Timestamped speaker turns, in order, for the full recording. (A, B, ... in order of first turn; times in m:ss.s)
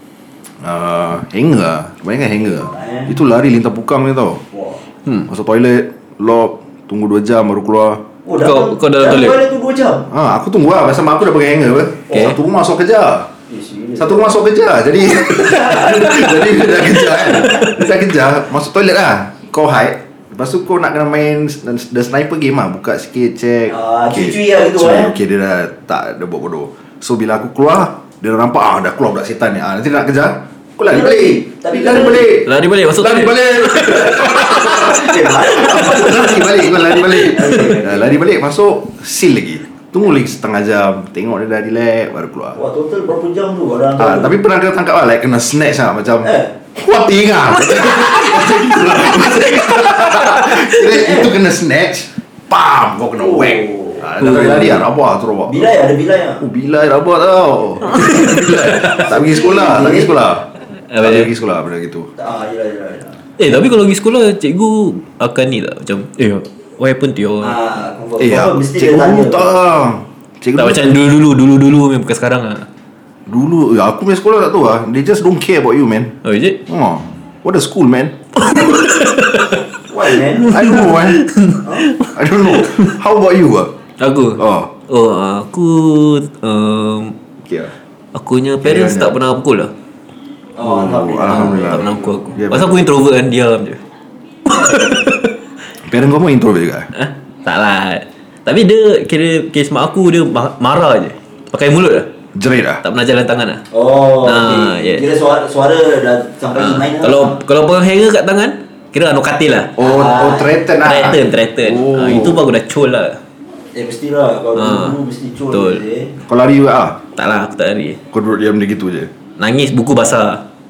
0:00.6-0:04.4 A
0:02.7-0:03.1 B
0:04.5-0:04.8 B
0:05.3-0:08.0 A
0:08.2-0:10.1 B
0:08.4-0:09.4 C
0:10.1-0:13.3 A
0:12.1-0:12.4 C
0:13.5-0:14.4 B
0:14.0-0:42.6 A
0:15.2-0:16.2 B
0:23.7-0:25.1 B
0:30.9-0:32.3 B
0:32.4-0:34.7 C
0:34.2-0:38.1 B
0:37.1-0:37.7 C
0:42.6-0:44.4 B
0:44.0-0:55.7 A
0:46.2-0:46.5 B
0:49.1-0:49.5 B
0:50.7-0:51.3 B
0:53.2-0:54.1 B
0:54.2-0:54.9 C
0:55.5-0:56.4 B
0:56.4-1:00.5 A
0:58.0-0:58.6 C
0:58.7-1:00.1 B
1:00.9-1:01.3 C
1:01.0-1:02.1 A
1:02.2-1:03.2 B
1:03.4-1:07.6 C
1:07.4-1:09.5 B
1:08.2-1:10.9 A
1:10.6-1:12.7 C
1:13.3-1:16.1 A
1:16.2-1:16.6 C
1:16.7-1:18.2 A
1:18.4-1:19.6 C
1:19.9-1:20.6 B
1:20.4-1:22.9 C
1:20.5-1:21.2 A
1:21.6-1:21.9 B
1:22.1-1:23.7 A
1:24.0-1:27.2 C
1:24.4-1:24.7 A
1:27.4-1:27.7 A
1:28.1-1:29.7 C
1:28.6-1:29.2 A
1:30.6-1:32.1 B
1:30.6-1:32.8 A
1:31.3-1:33.8 C
1:34.5-1:35.3 C
1:35.9-1:36.9 A
1:36.9-1:42.1 C
1:42.4-1:42.8 A
1:42.8-1:43.6 C
1:43.7-1:47.4 B
1:44.2-1:45.0 C
1:46.6-1:49.8 C
1:49.8-1:52.4 A
1:49.8-1:50.6 B
1:50.8-1:53.2 C
1:53.8-1:56.2 B
1:54.6-1:55.0 C
1:55.5-1:55.8 C
1:56.3-1:57.0 A
1:57.2-1:58.0 C
1:58.1-1:59.1 A
1:59.4-2:00.4 C